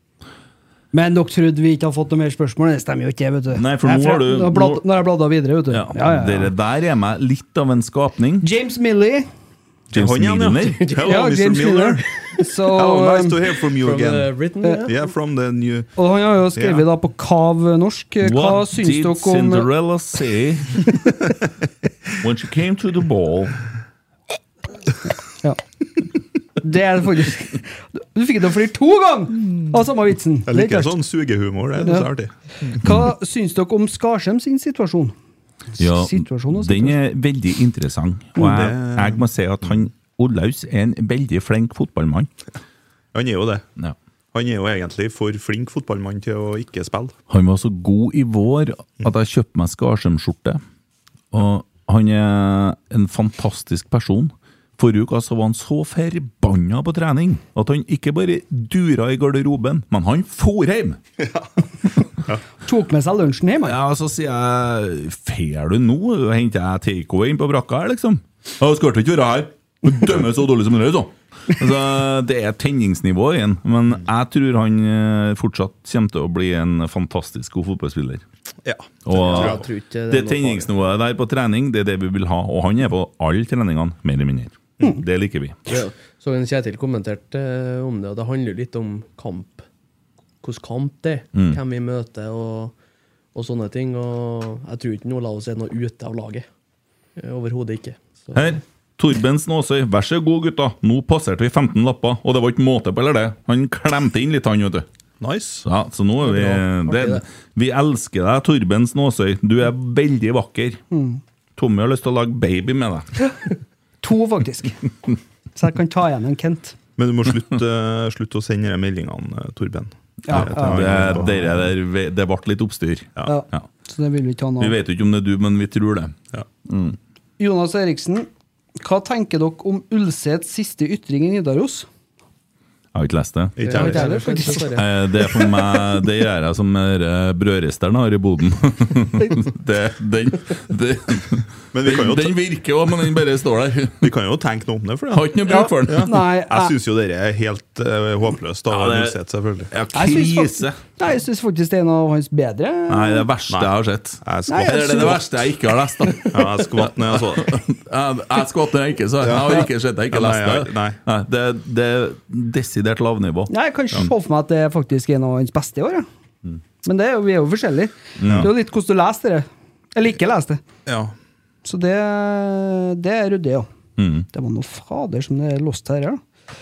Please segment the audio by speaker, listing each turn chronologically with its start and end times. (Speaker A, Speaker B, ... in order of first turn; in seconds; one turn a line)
Speaker A: 0.9-6.5
Speaker B: 3.5-4.8
Speaker B: 5.7-8.5
Speaker A: 8.4-9.3
Speaker C: 9.9-14.3
Speaker B: 9.9-10.9
Speaker D: 10.8-11.1
Speaker A: 11.0-13.4
Speaker D: 13.7-15.0
Speaker C: 14.9-16.0
Speaker A: 16.0-19.7
Speaker C: 16.5-16.9
Speaker B: 18.2-20.9
Speaker B: 22.2-23.6
Speaker A: 26.6-31.0
Speaker C: 30.5-32.8
Speaker A: 31.8-32.1
Speaker A: 32.7-35.1
Speaker A: 35.8-37.0
Speaker B: 35.8-42.3
Speaker C: 38.4-39.2
Speaker C: 43.1-43.7
Speaker C: 44.3-47.2
Speaker B: 47.3-50.6
Speaker B: 51.3-61.0
Speaker C: 61.2-61.5
Speaker A: 62.6-63.8
Speaker B: 63.6-78.2
Speaker C: 78.7-79.6
Speaker B: 79.1-85.7
Speaker D: 79.1-80.7
Speaker D: 85.7-89.7
Speaker D: 90.4-92.7
Speaker B: 91.3-91.6
Speaker D: 93.3-96.5
Speaker D: 97.2-98.6
Speaker B: 98.3-104.9
Speaker C: 105.2-105.7
Speaker B: 105.6-110.8
Speaker D: 106.2-107.2
Speaker A: 110.9-111.2
Speaker B: 111.6-113.1
Speaker A: 114.0-114.8
Speaker A: 115.5-116.8
Speaker C: 117.0-121.6
Speaker A: 120.2-121.1
Speaker B: 120.3-123.7
Speaker A: 123.3-124.8
Speaker B: 124.6-127.0
Speaker A: 127.4-128.3
Speaker A: 128.8-131.9
Speaker B: 132.9-133.9
Speaker C: 133.6-134.0
Speaker D: 133.6-134.9
Speaker A: 133.7-134.8
Speaker B: 134.7-144.1
Speaker C: 141.7-142.4
Speaker C: 144.0-149.7
Speaker B: 145.1-146.2
Speaker A: 145.4-146.7
Speaker B: 148.7-149.2
Speaker B: 149.7-150.8
Speaker A: 149.9-153.3
Speaker B: 152.9-164.0
Speaker C: 153.5-155.2
Speaker A: 154.5-155.2
Speaker C: 156.3-157.6
Speaker C: 159.2-161.0
Speaker A: 163.5-166.1
Speaker A: 166.8-170.6
Speaker B: 168.2-168.5
Speaker C: 170.9-171.1
Speaker A: 171.7-173.7
Speaker B: 174.0-174.3
Speaker A: 174.3-176.2